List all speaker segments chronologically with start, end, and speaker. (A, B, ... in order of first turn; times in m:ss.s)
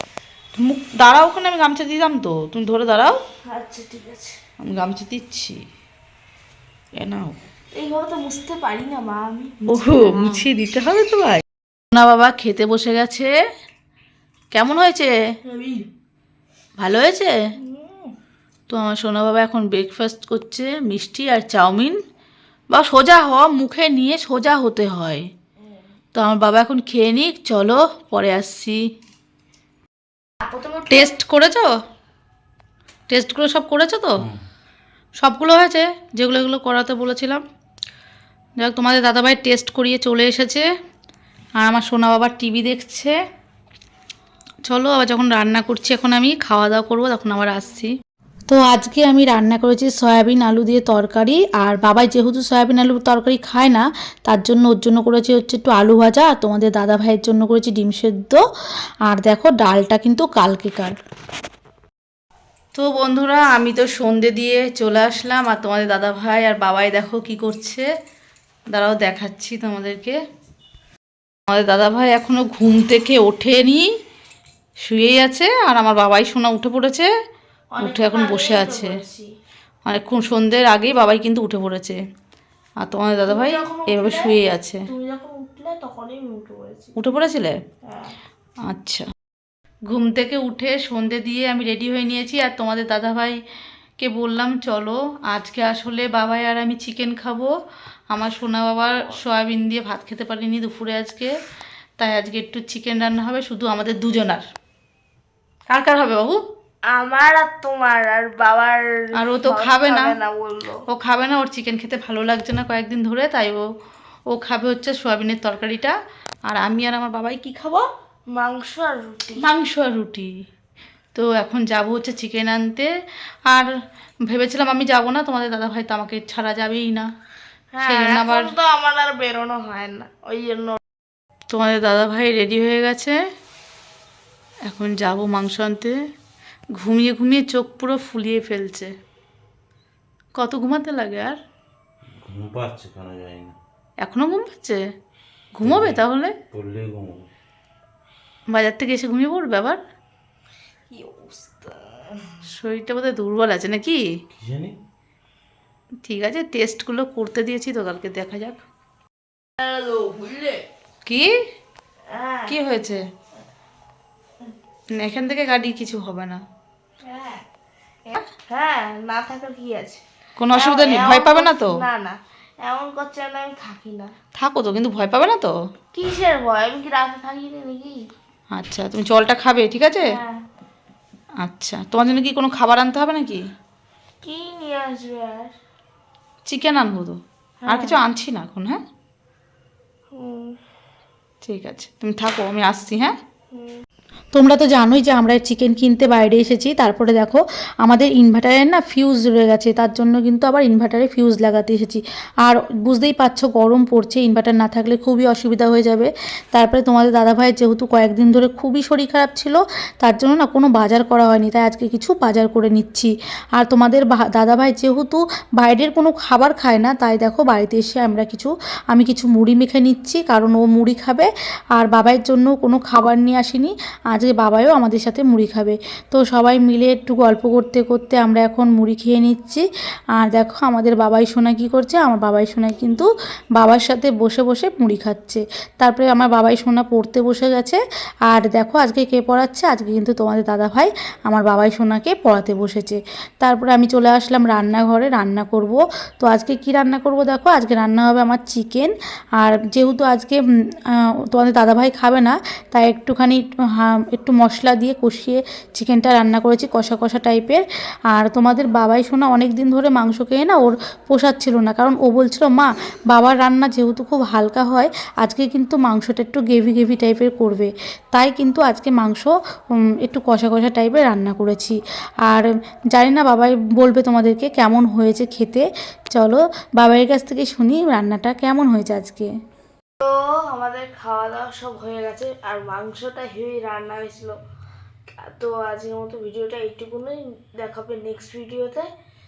0:00.6-0:03.2 A
0:03.5-0:04.4 B
0:04.6-0:05.6 A
0:07.0-0:07.4 A
0:07.8-0:10.5 B
0:09.7-0:13.3 A
0:14.5-0:15.1 A
0:15.4-0:15.9 B
0:16.8-0:17.4 A
0:17.6-0:18.2 B
0:18.7-0:22.0 A
0:22.7-0:25.3 A
0:26.2-0:28.8 A
0:30.4-0:31.1 B
0:30.9-0:31.7 A
0:33.1-0:34.3 A
0:35.2-0:37.4 A
0:38.6-0:40.7 A
0:41.6-0:43.2 A
0:44.7-0:47.9 A
0:48.5-0:58.4 A
0:59.1-1:01.0 A
1:02.8-1:07.9 A
1:08.7-1:10.2 A
1:11.5-1:13.9 A
1:14.8-1:17.1 A
1:17.7-1:19.3 B
1:17.8-1:19.0 A
1:19.9-1:22.0 A
1:22.8-1:24.8 A
1:23.3-1:24.4 B
1:24.9-1:26.9 B
1:27.0-1:27.6 A
1:27.9-1:28.2 B
1:28.7-1:29.1 A
1:29.9-1:33.4 A
1:34.0-1:37.5 A
1:38.1-1:41.3 A
1:42.0-1:44.4 A
1:45.7-1:46.4 A
1:46.9-1:50.8 B
1:49.2-1:50.2 A
1:50.9-1:53.6 A
1:54.3-1:56.0 A
1:56.5-1:57.9 A
1:58.3-1:59.4 B
1:59.4-2:00.3 A
2:01.1-2:02.9 A
2:03.5-2:03.7 A
2:04.3-2:07.1 A
2:07.7-2:10.8 B
2:07.8-2:08.5 A
2:11.5-2:13.2 A
2:14.7-2:16.0 A
2:16.8-2:18.9 A
2:20.4-2:21.4 A
2:22.2-2:23.6 C
2:24.0-2:24.8 A
2:25.6-2:26.4 A
2:25.6-2:27.3 C
2:28.5-2:29.8 A
2:30.9-2:32.3 B
2:32.5-2:34.0 A
2:34.3-2:34.8 C
2:36.0-2:38.6 A
2:39.6-2:40.6 B
2:42.1-2:42.5 B
2:42.5-2:43.0 A
2:45.0-2:46.4 A
2:47.0-2:47.4 B
2:48.1-2:50.0 B
2:50.4-2:51.8 A
2:50.5-2:54.1 B
2:54.4-2:55.5 A
2:55.9-2:58.0 B
2:58.5-3:00.2 A
3:00.1-3:00.4 B
3:01.4-3:03.4 A
3:04.2-3:05.5 B
3:06.4-3:08.8 A
3:07.6-3:08.0 B
3:10.1-3:10.5 B
3:11.4-3:13.2 A
3:13.5-3:13.8 B
3:14.3-3:49.6 A
3:50.2-4:10.4 A
4:11.3-4:29.3 A
4:30.0-4:39.3 A
4:40.0-4:44.4 B
4:45.2-4:48.9 B